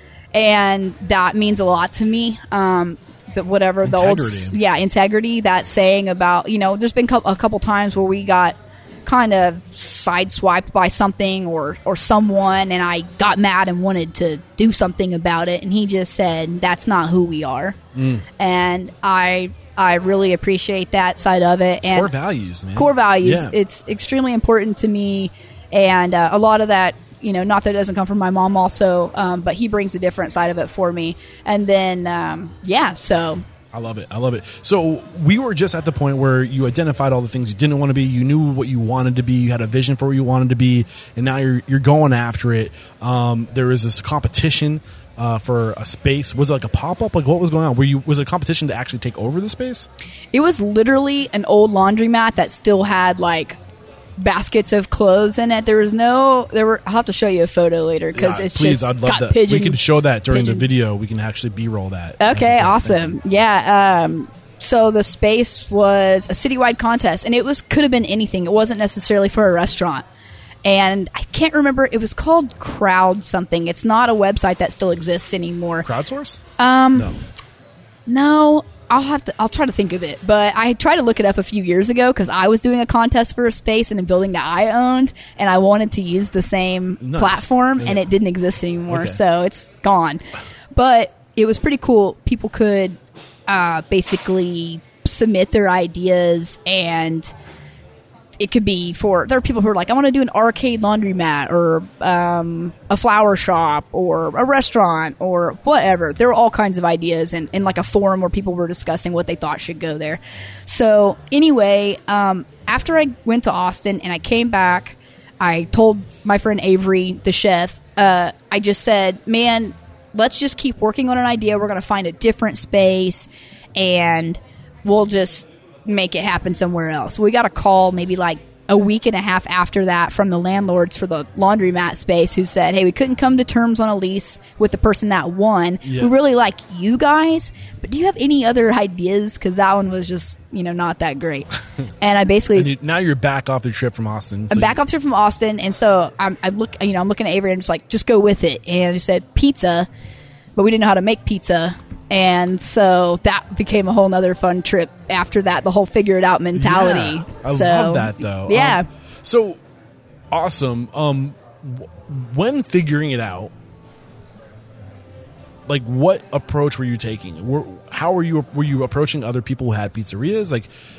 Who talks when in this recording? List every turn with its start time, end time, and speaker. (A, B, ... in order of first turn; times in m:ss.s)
0:00.3-0:17.8 A
0:03.8-0:04.6 B
0:18.0-0:18.3 B
0:18.4-0:22.1 A
0:21.9-0:23.5 B
0:22.8-0:33.4 A
0:33.7-0:49.9 B
0:50.3-0:53.6 A
0:54.2-1:00.7 A
0:58.2-1:03.2 B
1:02.2-1:10.0 A
1:10.6-1:15.9 A
1:15.8-1:16.4 B
1:16.6-1:17.2 A
1:18.1-1:37.3 A
1:27.0-1:28.0 B
1:28.9-1:29.2 B
1:38.4-2:21.5 A
2:15.8-2:16.1 B
2:22.0-2:22.7 A
2:22.5-2:24.8 B
2:24.5-2:29.9 A
2:30.6-2:38.9 A
2:36.6-2:39.6 B
2:40.3-2:43.5 B
2:45.7-2:50.7 B